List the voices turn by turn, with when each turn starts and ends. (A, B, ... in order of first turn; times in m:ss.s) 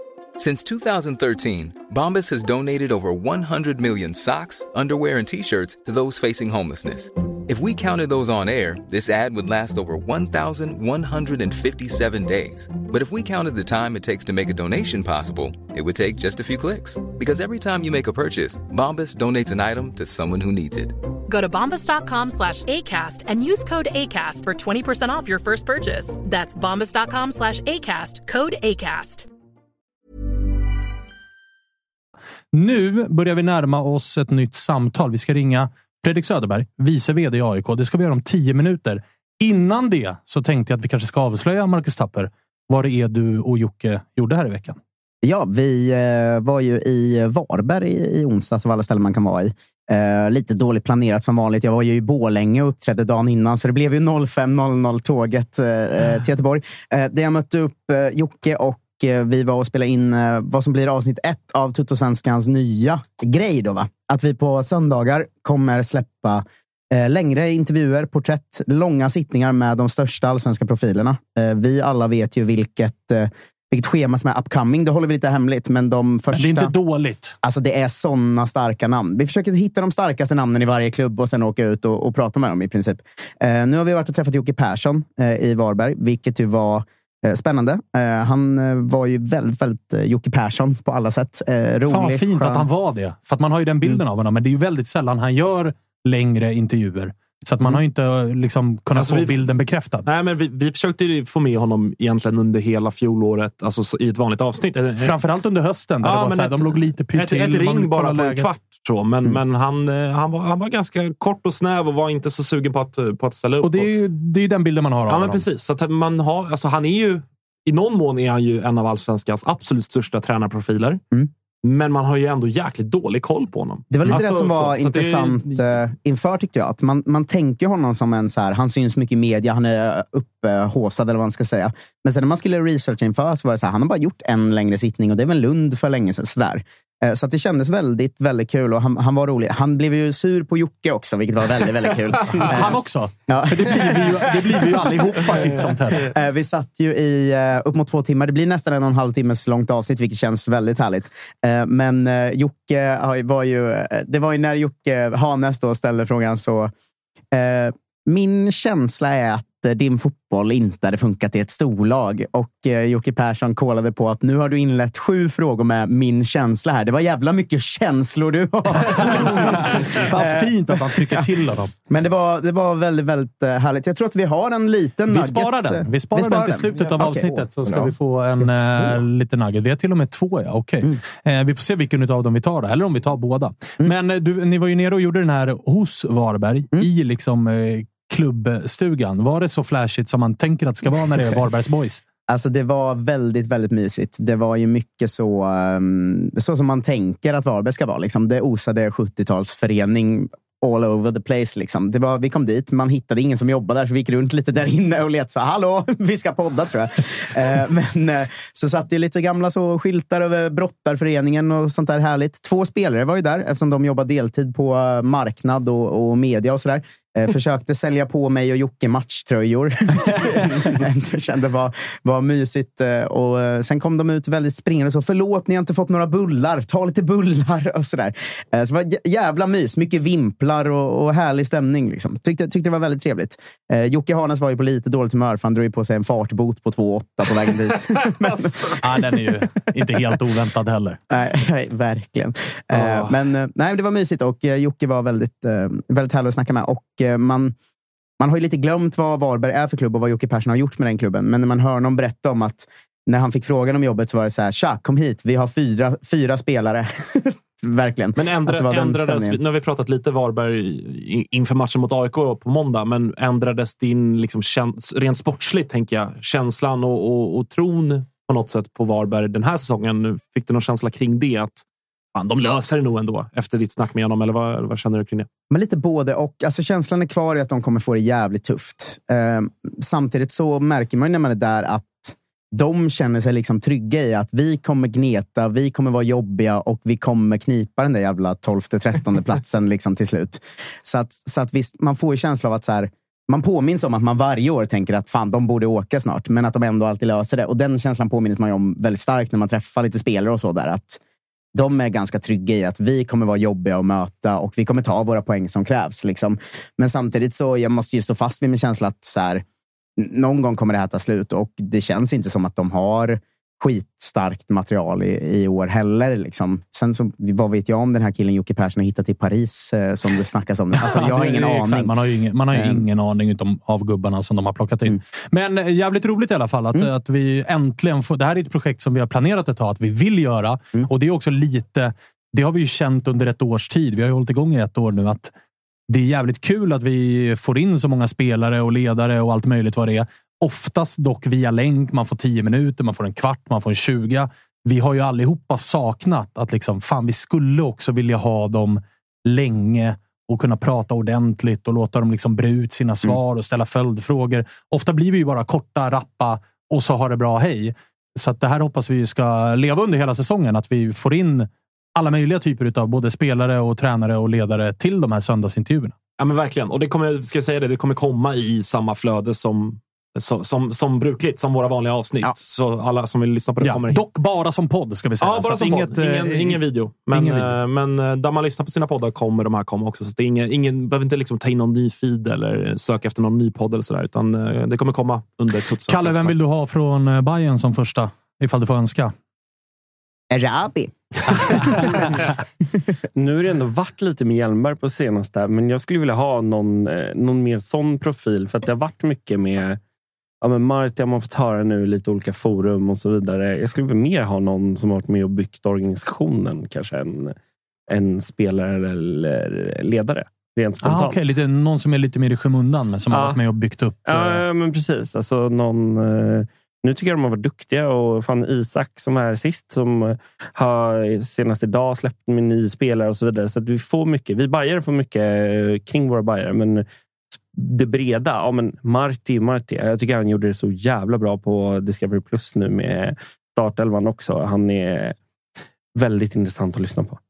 0:00.4-0:21.0 A
0:21.3-0:29.3 B
0:32.5-0:44.8 C
0:45.2-1:16.7 D
1:16.3-1:17.3 C
1:17.4-1:32.7 D
1:31.9-1:40.1 C
1:38.9-1:39.5 E
1:40.0-1:45.2 E
1:45.0-1:48.5 C
1:46.0-1:53.9 E
1:53.6-1:55.4 C
1:55.1-2:01.0 E
2:01.6-2:05.6 E
2:03.9-2:25.5 D
2:22.4-2:26.1 C
2:26.0-2:36.7 D
2:37.3-2:51.2 D
2:48.8-2:51.7 C
2:51.9-2:57.9 D
2:55.1-3:12.0 C
3:12.3-3:58.8 D
3:58.8-4:01.0 C
4:01.1-4:07.5 D
4:08.2-4:19.4 D
4:18.2-4:31.6 E
4:32.1-4:35.3 E
4:35.5-5:01.0 D
5:01.5-5:09.4 D
5:10.0-5:21.9 D
5:20.7-5:35.3 C
5:22.5-5:22.8 D
5:35.9-6:05.9 C
6:06.2-6:14.0 E
6:13.6-6:17.6 C
6:15.2-6:26.3 E
6:25.9-6:29.1 C
6:30.3-6:32.0 D
6:33.1-6:39.8 F
6:40.4-6:47.4 F
6:47.9-6:51.3 F
6:50.8-6:54.4 C
6:53.1-6:53.4 F
6:54.0-7:06.8 F
7:07.5-7:15.2 F
7:16.0-7:17.2 F